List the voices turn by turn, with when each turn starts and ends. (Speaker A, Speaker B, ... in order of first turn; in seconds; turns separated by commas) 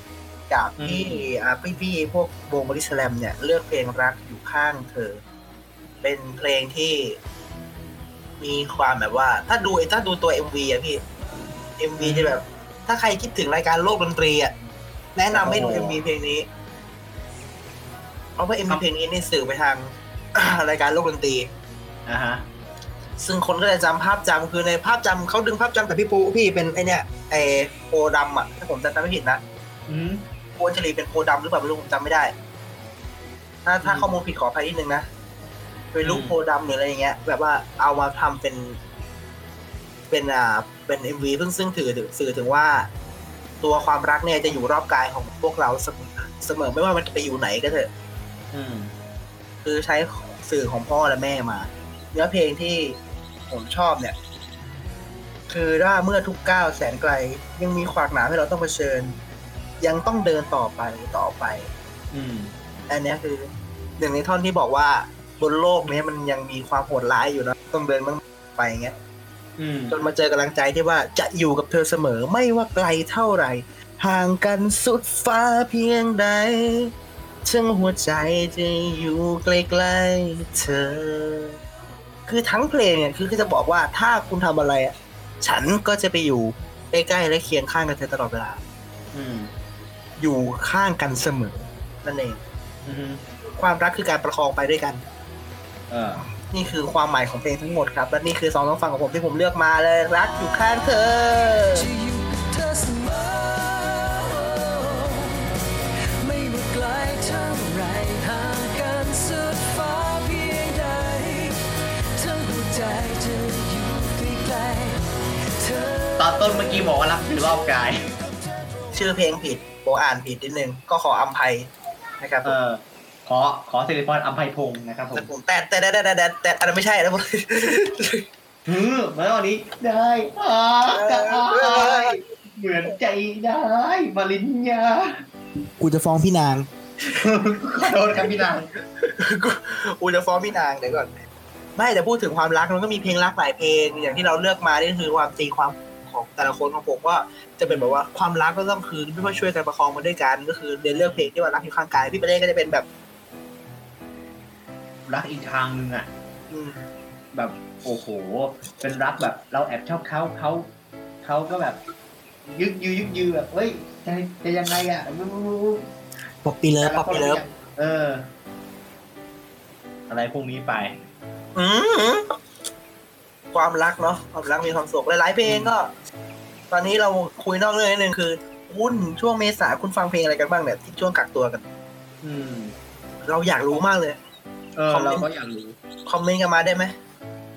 Speaker A: 0.5-5.2, Speaker B: 0.8-1.2, Speaker A: 6.0-7.2, Speaker A: 8.4-11.0, Speaker A: 11.8-14.5, Speaker B: 12.0-12.3, Speaker A: 15.1-16.5, Speaker B: 15.3-16.0, Speaker A: 18.4-21.5, Speaker B: 22.1-22.4, Speaker A: 23.2-29.4, Speaker B: 29.9-30.2, Speaker A: 30.6-32.3, Speaker A: 33.6-35.1, Speaker B: 33.8-34.1, Speaker A: 35.9-38.8, Speaker B: 36.0-36.4, Speaker A: 40.1-42.9, Speaker A: 43.6-47.9, Speaker B: 48.5-48.9, Speaker A: 49.6-53.0, Speaker A: 53.5-54.1, Speaker A: 55.5-59.2, Speaker A: 59.8-61.7, Speaker B: 62.1-62.5, Speaker A: 62.9-69.0, Speaker B: 69.6-70.0, Speaker A: 69.9-76.9, Speaker A: 77.4-81.6, Speaker A: 82.3-88.6, Speaker B: 89.1-89.5, Speaker A: 90.2-92.4, Speaker B: 92.8-93.2, Speaker A: 93.6-95.0, Speaker B: 95.9-96.2, Speaker A: 96.5-101.9, Speaker C: 101.6-105.5, Speaker C: 106.2-111.6, Speaker C: 112.1-116.4, Speaker B: 116.2-118.1, Speaker A: 118.9-122.5, Speaker B: 122.4-125.3, Speaker A: 125.1-128.2, Speaker B: 128.7-135.2, Speaker A: 130.9-132.2, Speaker A: 135.8-136.7, Speaker B: 137.0-138.7, Speaker A: 138.1-138.4, Speaker A: 139.0-141.1, Speaker A: 141.8-152.9, Speaker B: 147.7-148.0, Speaker B: 150.9-151.3, Speaker B: 155.1-156.1, Speaker A: 156.5-156.8, Speaker B: 157.3-160.7, Speaker B: 161.2-161.8, Speaker B: 162.5-165.9, Speaker A: 166.4-167.4, Speaker B: 166.8-168.3, Speaker B: 170.1-171.0, Speaker A: 171.5-172.4, Speaker A: 173.5-175.9, Speaker B: 175.4-175.7, Speaker A: 176.7-181.6, Speaker B: 182.2-182.7, Speaker A: 183.2-184.2, Speaker B: 184.8-185.8, Speaker A: 184.9-185.3, Speaker A: 186.1-186.9